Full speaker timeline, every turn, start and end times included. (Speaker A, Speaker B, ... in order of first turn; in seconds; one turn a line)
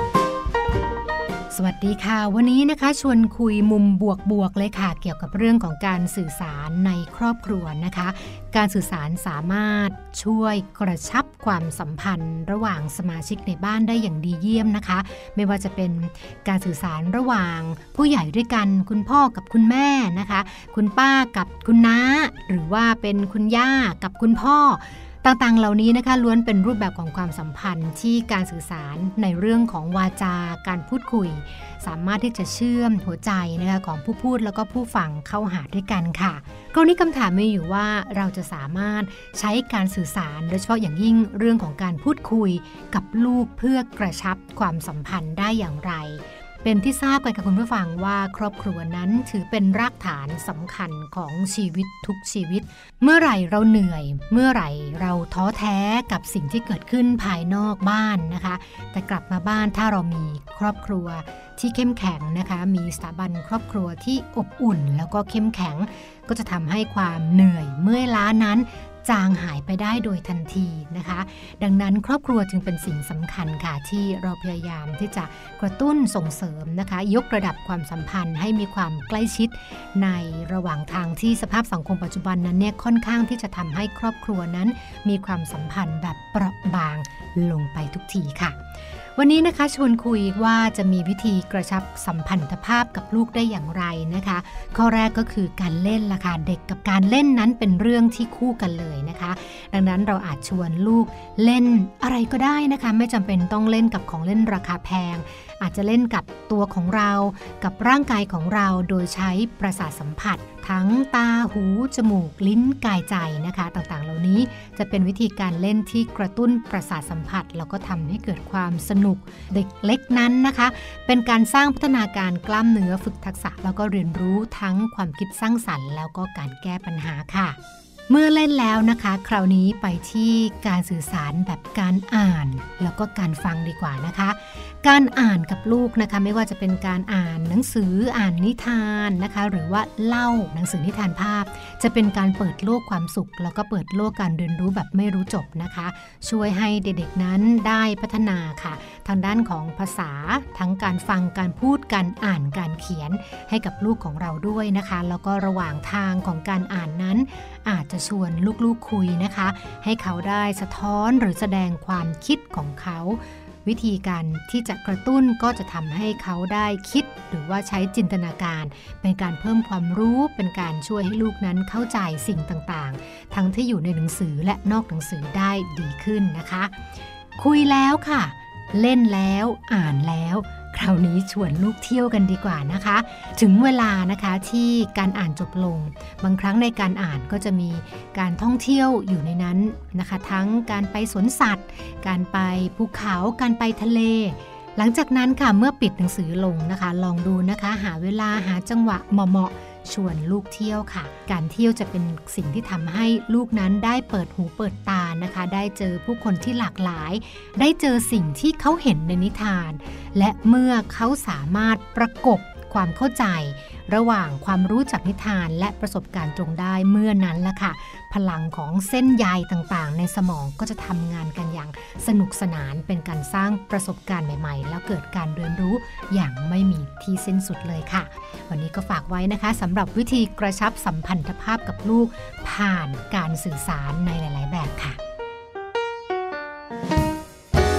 Speaker A: 1.5-88.6
Speaker A: 89.2-127.6
Speaker A: 128.1-176.8
Speaker A: 177.4-235.0